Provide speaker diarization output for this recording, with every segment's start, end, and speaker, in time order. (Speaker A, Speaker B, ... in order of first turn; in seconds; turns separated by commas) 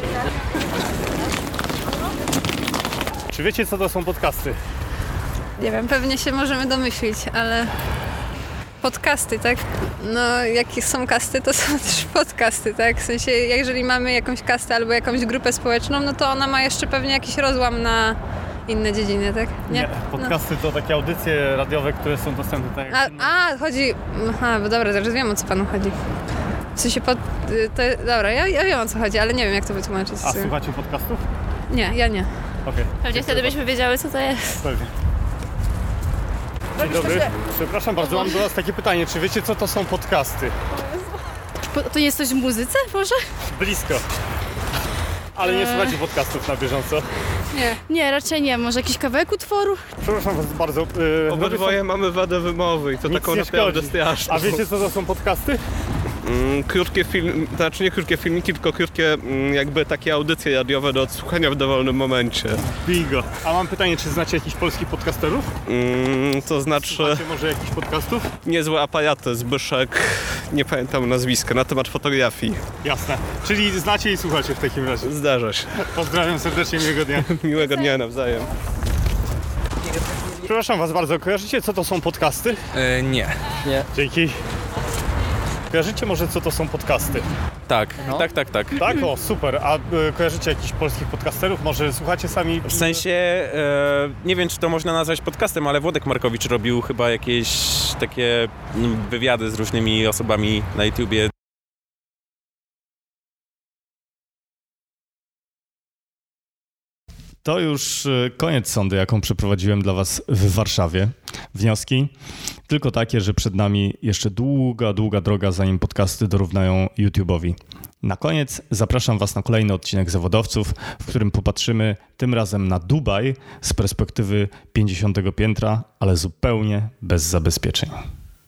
Speaker A: 3.3-4.6, Speaker B: 5.6-7.7, Speaker B: 8.8-20.3, Speaker A: 19.7-23.3, Speaker B: 22.9-25.9, Speaker B: 26.8-30.5, Speaker A: 30.2-31.2, Speaker B: 31.7-32.3, Speaker A: 32.6-33.6, Speaker C: 33.0-34.6, Speaker A: 34.6-34.9, Speaker A: 36.8-40.5, Speaker C: 36.8-37.2, Speaker D: 41.6-43.2, Speaker A: 43.5-44.0, Speaker A: 45.4-47.1, Speaker D: 45.5-46.0, Speaker D: 47.9-49.8, Speaker A: 50.0-51.8, Speaker E: 51.3-54.6, Speaker A: 53.0-55.6, Speaker E: 56.2-62.6, Speaker A: 62.7-65.5, Speaker E: 65.7-67.3, Speaker A: 66.8-68.3, Speaker E: 68.4-72.6, Speaker A: 72.8-75.1, Speaker E: 75.0-75.7, Speaker A: 75.8-77.3, Speaker E: 77.2-78.5, Speaker A: 80.4-82.6, Speaker A: 83.9-84.4, Speaker A: 85.7-87.3, Speaker F: 87.7-88.8, Speaker A: 88.7-93.0, Speaker F: 92.7-101.3, Speaker G: 107.4-112.1, Speaker G: 112.7-127.9